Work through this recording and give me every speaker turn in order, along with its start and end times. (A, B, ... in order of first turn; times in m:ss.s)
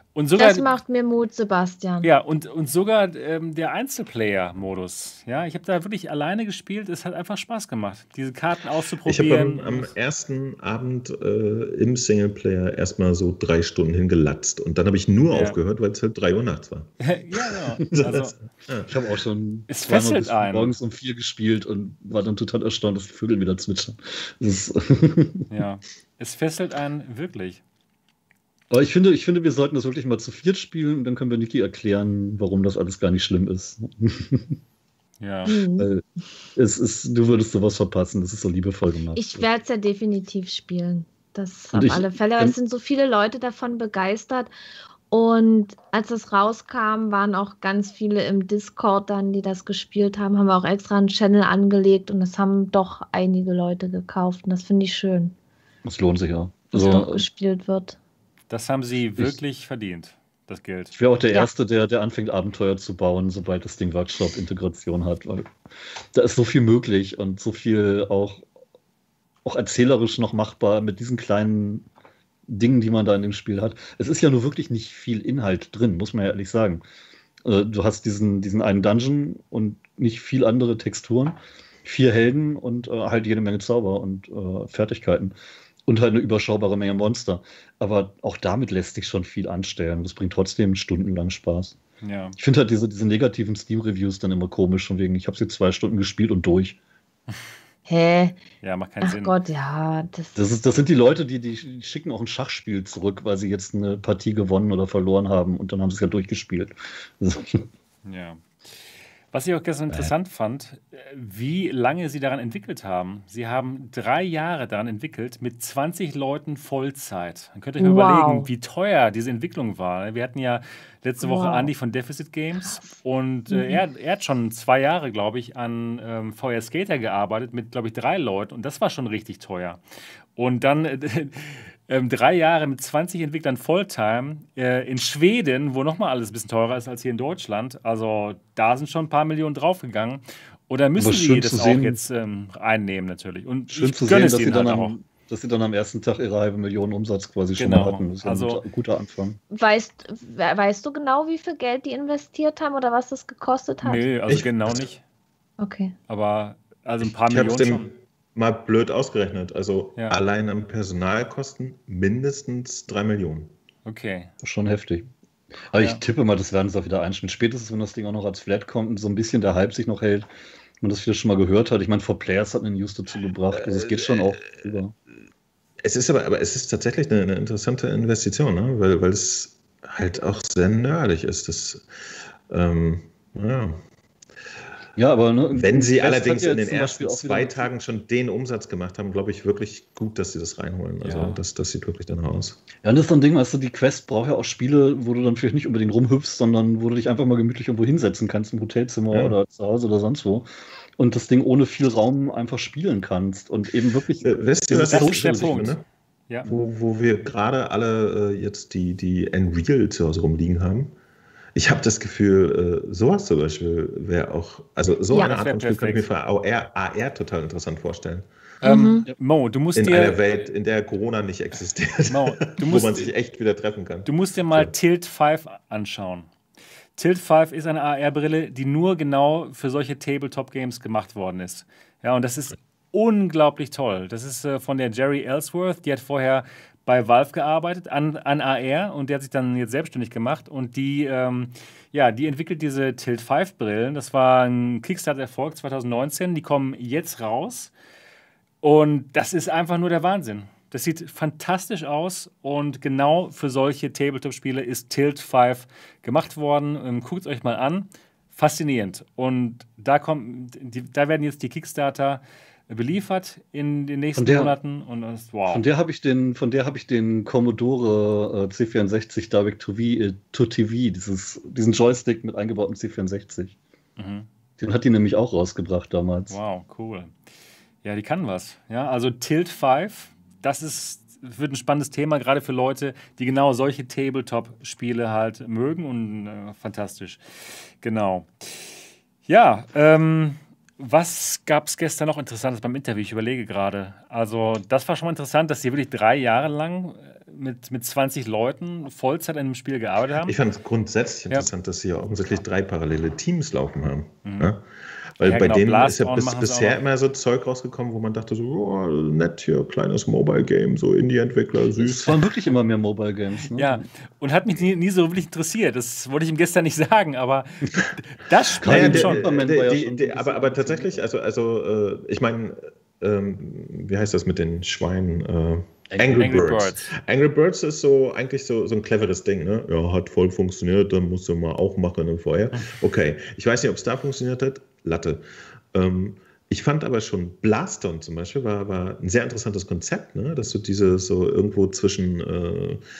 0:00.1-0:00.7 A
0:00.4-0:02.1 B
0:02.0-0:09.9 A
0:09.0-0:16.9 C
0:15.3-0:15.6 A
0:17.0-0:18.4 A
0:17.9-0:18.9 C
0:18.9-0:25.5 D
0:19.7-0:20.8 A
0:25.5-0:27.6 A
0:28.7-0:34.6 D
0:35.2-0:35.6 A
0:35.4-0:35.9 B
0:35.8-0:36.0 D
0:36.6-0:39.5 D
0:39.1-0:44.5 B
0:41.7-0:42.6 D
0:45.1-0:55.3 B
0:55.8-0:57.3 D
0:56.7-0:58.0 B
0:58.5-1:00.9 A
1:00.9-1:05.5 D
1:06.1-1:08.4 D
1:09.4-1:11.8 D
1:12.5-1:16.8 D
1:17.4-1:25.3 D
1:25.8-1:31.8 D
1:32.0-1:32.4 A
1:32.4-1:36.8 D
1:37.8-1:38.4 B
1:38.6-1:39.3 A
1:39.0-1:40.4 B
1:40.4-1:47.6 D
1:48.0-1:48.4 A
1:49.3-2:09.8 A
1:57.8-1:58.5 B
2:01.2-2:01.7 B
2:03.5-2:03.8 B
2:10.4-2:24.9 A
2:21.0-2:22.0 D
2:23.7-2:29.4 D
2:27.6-2:28.6 A
2:29.5-2:34.0 B
2:33.8-2:35.0 A
2:34.3-2:34.8 C
2:35.6-2:35.9 B
2:36.1-2:37.9 A
2:37.0-2:43.5 C
2:43.8-2:44.3 A
2:44.4-2:45.1 D
2:45.7-2:50.3 D
2:45.8-2:46.0 A
2:50.8-2:54.9 D
2:53.6-2:54.4 C
2:55.8-3:01.8 C
3:02.5-3:03.8 C
3:05.0-3:07.7 D
3:05.6-3:12.6 C
3:11.0-3:11.4 A
3:12.8-3:25.7 D
3:24.2-3:25.8 C
3:24.9-3:25.8 A
3:26.4-3:30.9 C
3:31.6-3:38.3 C
3:35.2-3:36.1 A
3:38.6-3:39.1 B
3:38.6-3:40.2 A
3:39.7-3:44.7 C
3:42.1-3:43.1 A
3:44.0-3:46.3 A
3:47.0-4:07.7 A
4:08.6-4:25.6 A
4:24.2-4:24.5 D
4:25.5-4:33.6 D
4:34.0-4:34.3 A
4:34.6-4:36.4 D
4:36.3-4:37.1 A
4:37.8-5:00.4 A
5:00.3-5:04.6 C
5:04.2-5:04.5 A
5:05.2-5:12.2 C
5:05.2-5:06.8 A
5:11.8-5:13.8 D
5:13.6-5:19.3 A
5:18.6-5:21.0 D
5:18.6-5:42.8 C
5:25.9-5:26.5 D
5:26.2-5:26.9 A